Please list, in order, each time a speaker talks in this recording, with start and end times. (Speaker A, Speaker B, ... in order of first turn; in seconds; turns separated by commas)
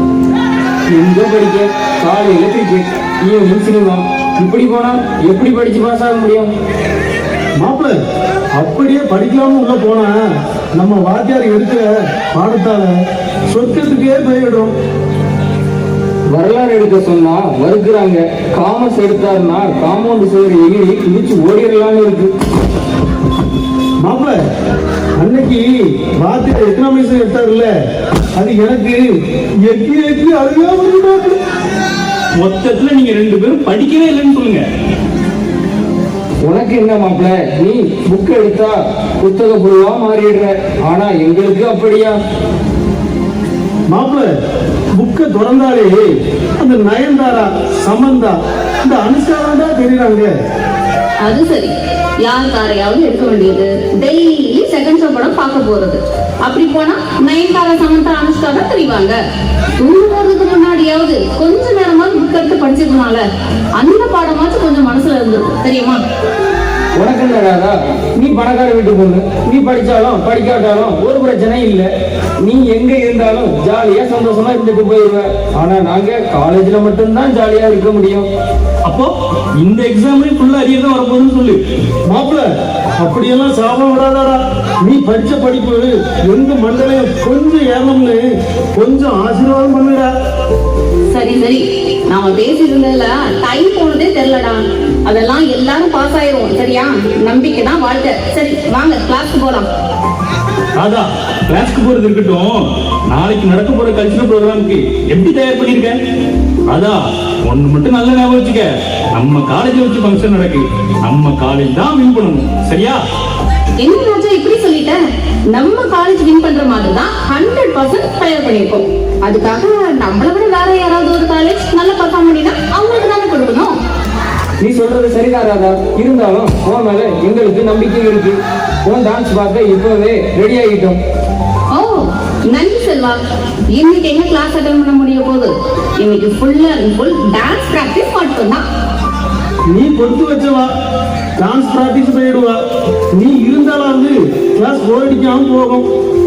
Speaker A: 0.9-6.5, Speaker B: 7.6-8.0, Speaker B: 8.6-10.2, Speaker B: 10.8-12.9, Speaker B: 13.5-14.7, Speaker A: 16.3-22.3, Speaker B: 24.0-24.4, Speaker B: 25.2-27.7, Speaker B: 28.4-31.4, Speaker C: 32.4-34.6, Speaker A: 36.5-42.1, Speaker B: 43.9-44.3, Speaker B: 45.0-50.3, Speaker D: 51.2-59.2, Speaker D: 59.8-63.2, Speaker D: 63.8-66.0, Speaker A: 67.0-71.9, Speaker A: 72.4-78.3, Speaker C: 78.8-81.6, Speaker B: 82.1-82.5, Speaker B: 83.0-88.2, Speaker B: 88.8-90.1, Speaker D: 91.1-99.7, Speaker C: 100.8-106.0, Speaker C: 106.7-113.0, Speaker D: 113.8-115.0, Speaker D: 115.5-123.7, Speaker A: 124.6-131.0, Speaker D: 131.7-133.2, Speaker D: 133.7-138.7, Speaker B: 139.7-140.7, Speaker B: 141.4-142.6, Speaker B: 143.1-145.9